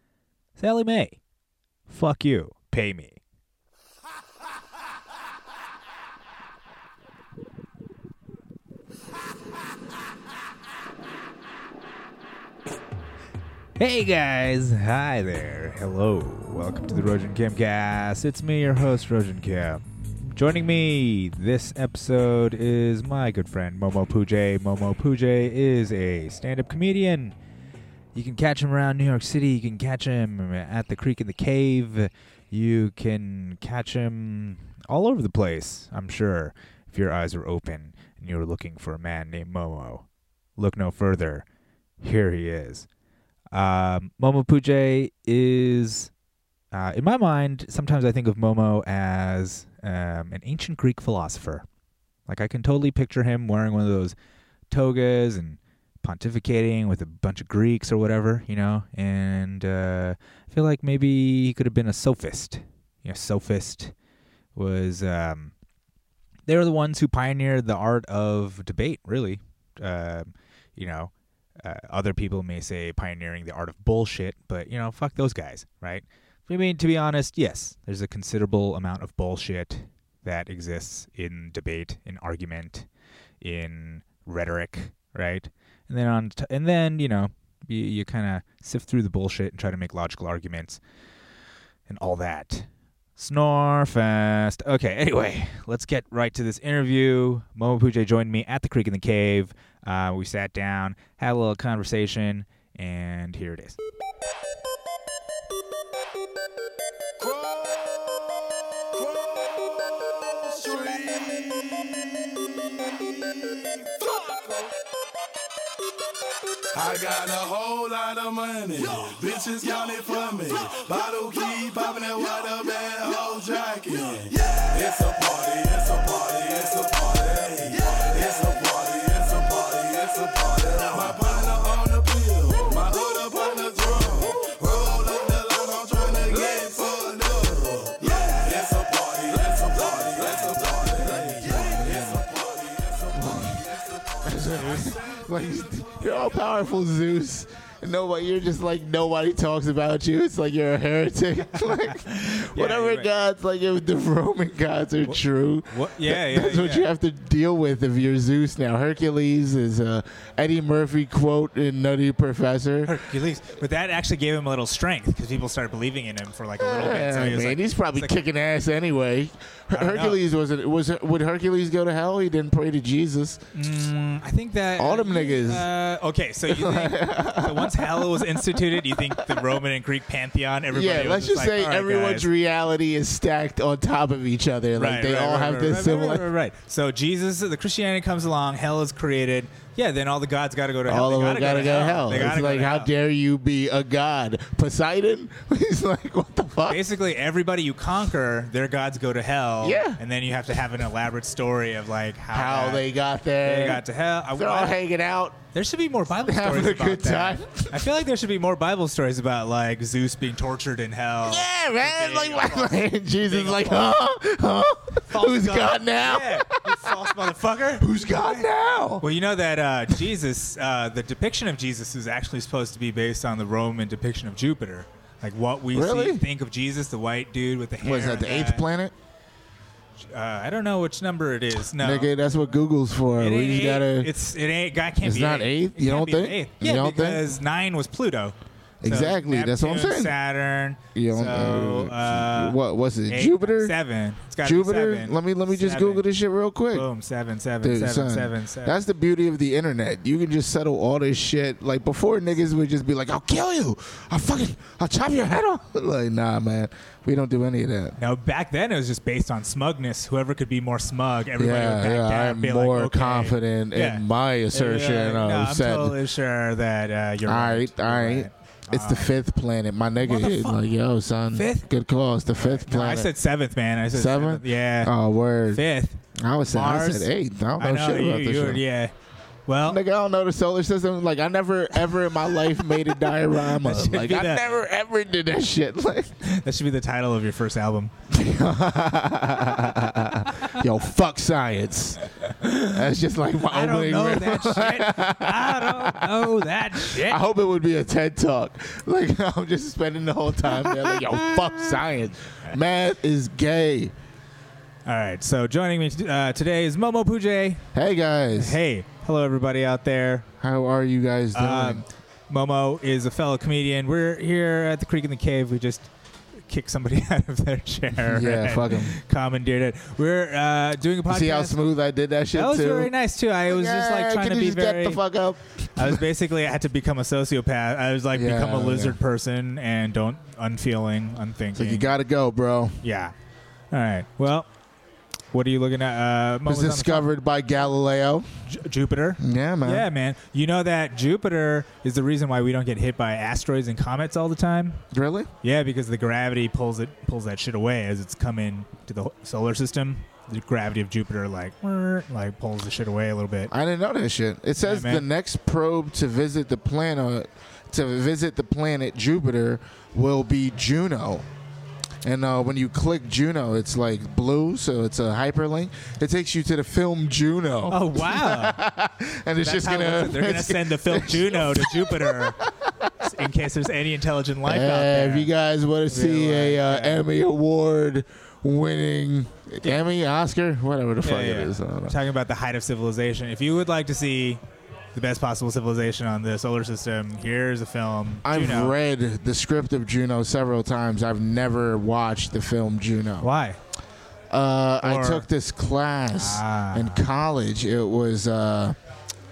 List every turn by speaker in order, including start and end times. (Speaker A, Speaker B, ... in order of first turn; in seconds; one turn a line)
Speaker A: 0.6-1.2
Speaker A: 1.9-3.2
Speaker A: 13.8-27.4
Speaker A: 28.1-40.0
Speaker A: 40.6-41.5
Speaker A: 42.0-42.9
Speaker A: 43.5-46.1
Speaker A: 46.7-51.6
Speaker A: 52.3-54.1
Speaker A: 54.7-63.9
Speaker A: 64.5-65.5
Speaker A: 66.5-82.9
Speaker A: 83.4-90.8
Speaker A: 91.9-103.8
Speaker B: 109.0-109.7
Speaker B: 110.4-113.1
Speaker B: 116.7-143.9
Speaker C: 140.8-142.2
Speaker C: 143.1-143.7
Speaker C: 144.2-163.0
Speaker A: 144.6-144.9
Speaker A: 151.6-152.0
Speaker A: 152.5-153.1
Speaker A: 155.1-156.9
Speaker A: 162.8-168.2
Speaker C: 166.6-173.4
Speaker A: 169.7-170.2
Speaker A: 173.5-182.3
Speaker C: 174.8-175.7
Speaker C: 176.5-179.6
Speaker C: 180.7-186.3
Speaker A: 184.8-192.9
Speaker C: 190.9-196.8
Speaker A: 196.7-202.8
Speaker C: 199.6-200.0
Speaker C: 202.3-205.4
Speaker A: 203.4-204.7
Speaker A: 205.5-213.9
Speaker C: 206.2-207.9
Speaker C: 211.2-217.0
Speaker A: 214.9-218.4
Speaker C: 217.8-219.1
Speaker A: 219.0-228.7
Speaker C: 225.7-226.2
Speaker C: 227.8-228.9
Speaker A: 230.1-232.1
Speaker C: 231.8-234.1
Speaker A: 233.2-246.0
Speaker C: 235.0-237.2
Speaker C: 238.8-240.1
Speaker C: 240.9-243.7
Speaker C: 244.4-246.9
Speaker A: 246.7-248.8
Speaker C: 247.6-257.9
Speaker A: 258.0-269.1
Speaker C: 261.4-266.0
Speaker C: 267.2-273.1
Speaker A: 270.0-270.6
Speaker A: 271.3-271.7
Speaker A: 272.3-274.9
Speaker C: 273.9-275.6
Speaker A: 275.5-276.0
Speaker C: 276.1-278.6
Speaker A: 276.5-278.9
Speaker A: 279.5-279.8
Speaker C: 279.6-286.1
Speaker A: 282.9-284.5
Speaker A: 286.2-287.9
Speaker C: 288.1-303.9
Speaker A: 292.3-292.8
Speaker A: 293.4-297.2
Speaker A: 300.5-300.9
Speaker A: 304.9-307.7
Speaker C: 307.7-308.6
Speaker A: 308.4-310.2
Speaker C: 310.4-311.8
Speaker A: 311.3-315.9
Speaker A: 316.4-321.6
Speaker C: 318.0-319.0
Speaker C: 321.1-322.9
Speaker A: 322.3-325.0
Speaker C: 323.5-326.0
Speaker A: 325.8-331.9
Speaker C: 328.1-329.0
Speaker C: 331.5-332.8
Speaker A: 332.8-333.1
Speaker A: 333.7-334.5
Speaker A: 335.3-337.1
Speaker C: 336.4-338.3
Speaker A: 338.5-344.8
Speaker C: 339.2-339.9
Speaker C: 344.9-345.3
Speaker A: 345.4-353.5
Speaker C: 353.5-361.2
Speaker A: 354.6-355.1
Speaker C: 362.0-373.1
Speaker A: 367.7-368.6
Speaker A: 369.4-372.4
Speaker A: 373.0-375.3
Speaker C: 374.4-381.9
Speaker A: 375.9-377.0
Speaker A: 381.0-384.4
Speaker A: 384.9-388.7
Speaker C: 388.2-393.3
Speaker A: 393.2-393.6
Speaker C: 394.3-398.8
Speaker A: 394.8-395.2
Speaker A: 396.1-397.0